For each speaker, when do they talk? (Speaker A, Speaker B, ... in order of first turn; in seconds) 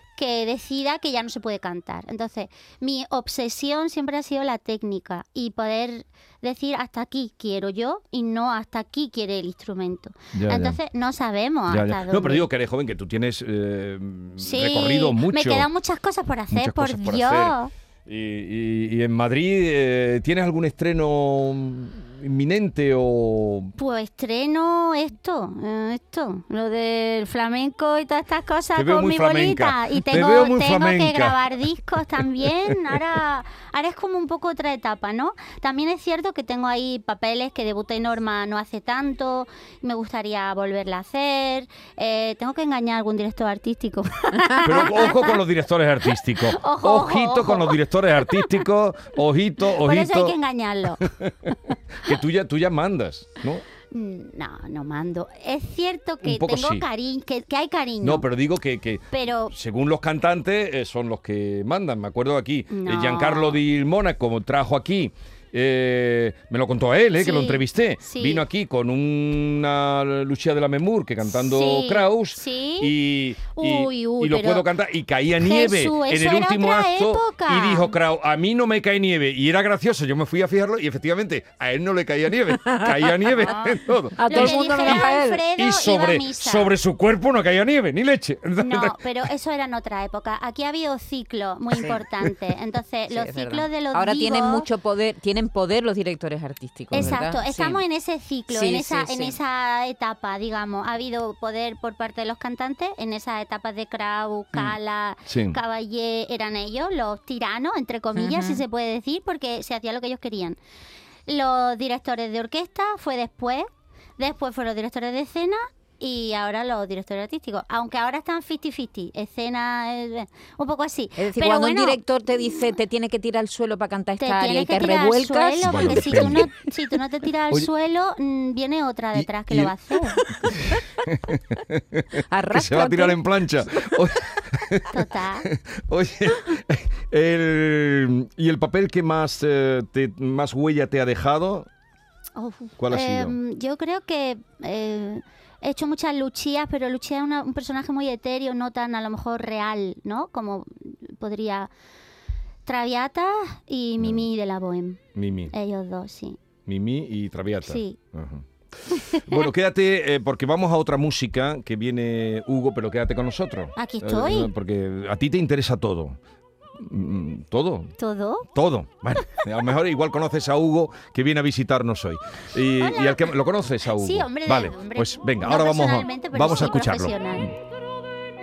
Speaker A: 0.2-12.5, 14.4-17.7, 23.8-45.4, 46.4-48.6, 49.8-51.1, 53.9-58.3, 59.1-59.5, 62.7-63.6, 67.2-68.5, 71.3-74.7, 75.4-77.9, 83.4-83.8, 84.3-86.7, 88.6-94.7, 96.9-110.6, 111.3-113.7, 114.2-122.7, 124.2-130.2, 134.9-135.5, 142.4-151.7, 152.7-155.0, 155.5-156.4, 157.6-158.0, 158.9-159.4, 163.8-164.5, 168.0-168.5, 172.8-173.4, 173.9-177.5
Speaker B: 10.3-10.8, 11.7-15.7, 16.5-23.7, 28.8-31.4, 32.2-32.8, 44.6-50.4, 50.9-53.6, 56.2-56.9, 58.0-89.3, 96.9-97.2, 105.3-105.6, 125.6-126.5, 129.1-129.8, 130.5-141.7, 142.8-143.4, 154.0-154.3, 155.2-155.5, 156.7-166.2, 166.8-167.9, 168.5-177.5
Speaker C: 82.7-83.5, 84.2-85.4, 93.1-97.8, 98.5-99.4, 108.2-108.6, 121.2-126.5, 130.2-130.8, 132.2-133.2